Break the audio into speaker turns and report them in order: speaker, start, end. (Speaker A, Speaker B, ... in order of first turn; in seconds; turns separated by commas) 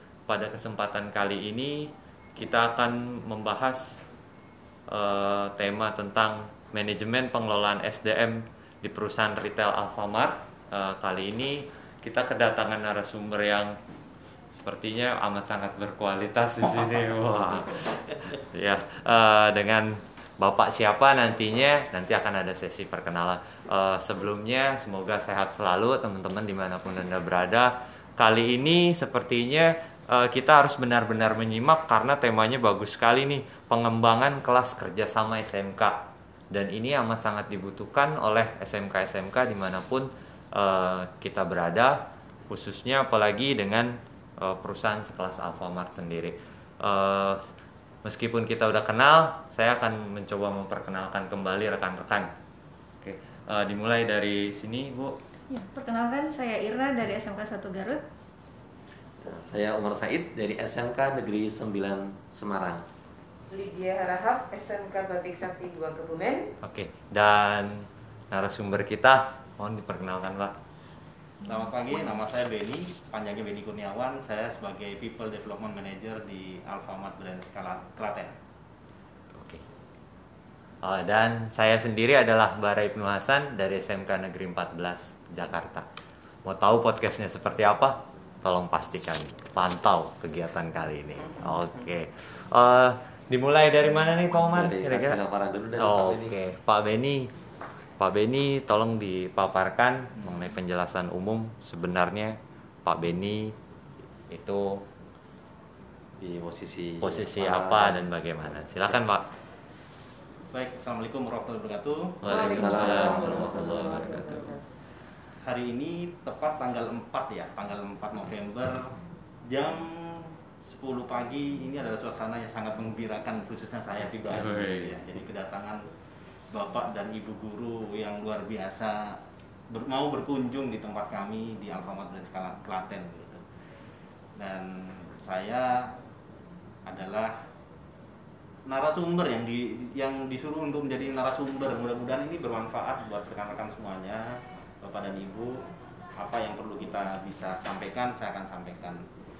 Speaker A: 0.3-4.0, Speaker A: 4.9-13.8, Speaker A: 14.5-36.0, Speaker A: 36.5-47.5, Speaker A: 48.0-52.3, Speaker A: 53.0-55.2, Speaker B: 55.5-58.0, Speaker C: 59.2-62.8, Speaker D: 63.5-66.5, Speaker A: 66.6-70.5, Speaker E: 71.4-78.3, Speaker A: 79.3-79.6, Speaker A: 80.8-85.8, Speaker A: 86.4-95.2, Speaker C: 94.5-96.3, Speaker A: 95.8-97.3, Speaker A: 98.0-103.5, Speaker A: 104.3-104.8, Speaker C: 106.2-108.1, Speaker A: 107.0-109.2, Speaker E: 110.5-112.2, Speaker A: 112.2-114.5, Speaker D: 112.2-114.6, Speaker C: 112.3-114.1, Speaker E: 115.4-118.9, Speaker E: 119.5-125.9, Speaker A: 124.3-125.0, Speaker E: 126.5-133.5, Speaker E: 134.4-136.0, Speaker E: 136.8-137.4, Speaker E: 138.7-145.6, Speaker E: 146.2-149.1